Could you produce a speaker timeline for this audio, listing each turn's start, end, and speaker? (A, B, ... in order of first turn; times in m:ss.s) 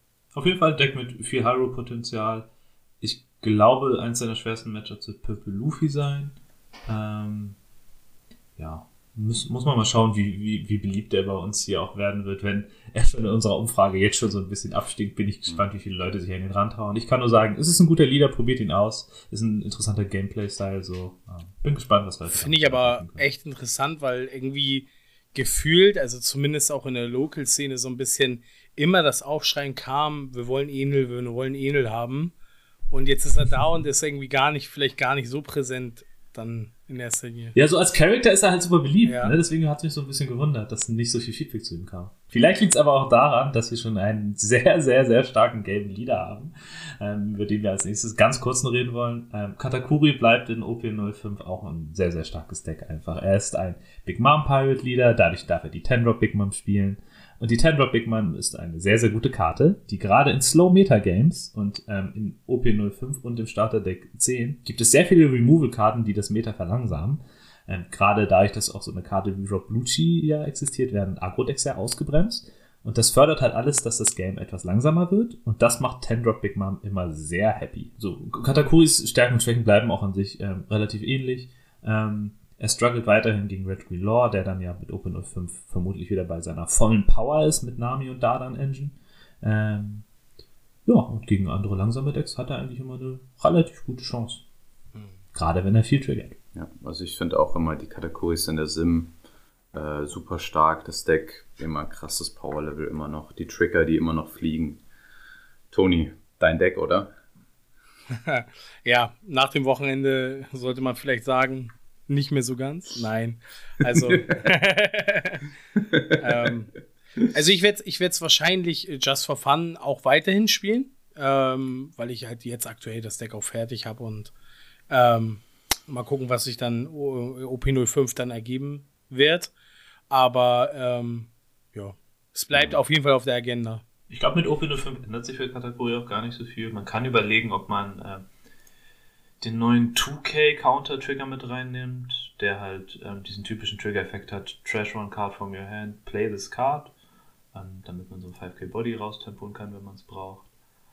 0:00.3-0:02.5 A
0:03.0-0:06.4 A
0:06.9-0:07.6 A
0:08.6-0:23.3 A
0:22.3-0:32.3 B
0:32.9-0:37.6 B
0:37.6-1:30.1 A
0:39.0-0:39.4 B
1:30.9-1:34.4 A
1:35.3-1:36.4 A
1:36.6-1:39.1 C
1:39.7-1:44.8 C
1:45.7-1:47.1 C
1:48.1-1:55.4 B
1:56.1-2:04.3 B
2:04.9-2:09.5 B
2:10.1-2:13.8 B
2:12.5-2:12.8 C
2:14.1-2:18.2 A
2:19.4-2:26.9 A
2:27.5-2:30.5 A